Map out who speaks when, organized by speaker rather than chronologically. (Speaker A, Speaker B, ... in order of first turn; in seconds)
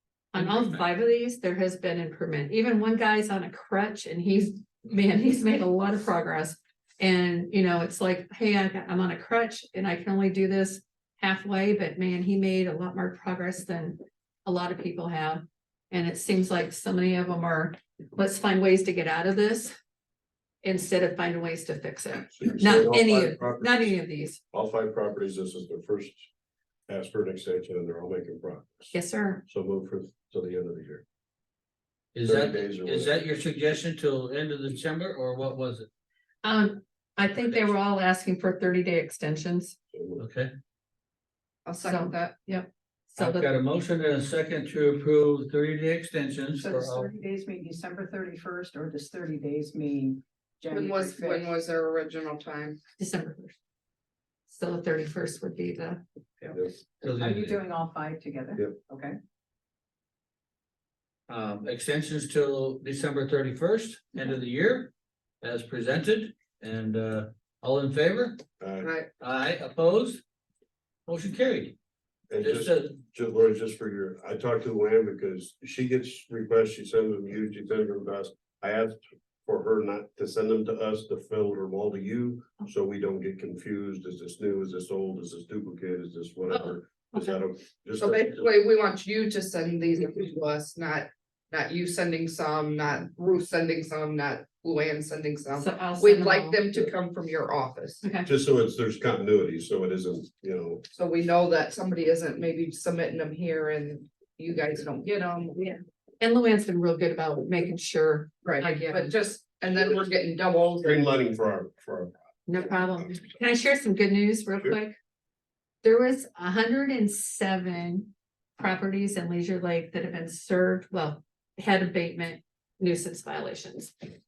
Speaker A: 0.3-19.8, 20.6-24.4, 28.9-29.4, 36.4-39.8, 41.8-43.5, 53.0-53.6, 54.5-56.0, 86.5-87.4, 95.6-96.6, 98.0-98.3, 105.6-109.1, 112.5-115.0, 115.8-123.9
Speaker B: 0.4-0.8, 32.1-35.9, 40.2-40.5, 43.2-47.1, 57.0-57.6, 61.3-64.9, 65.4-68.4, 69.2-70.2, 71.1-71.8, 72.4-73.0
Speaker C: 22.3-23.9, 24.5-26.3, 26.9-28.9, 29.5-31.0, 32.2-33.1, 39.9-40.2, 68.6-68.9, 72.3-88.4, 98.2-100.8, 110.8-112.2
Speaker D: 41.6-42.4, 50.7-52.8, 68.8-69.1, 88.0-98.1, 100.9-105.6, 108.4-111.0
Speaker E: 46.6-51.5, 56.4-59.2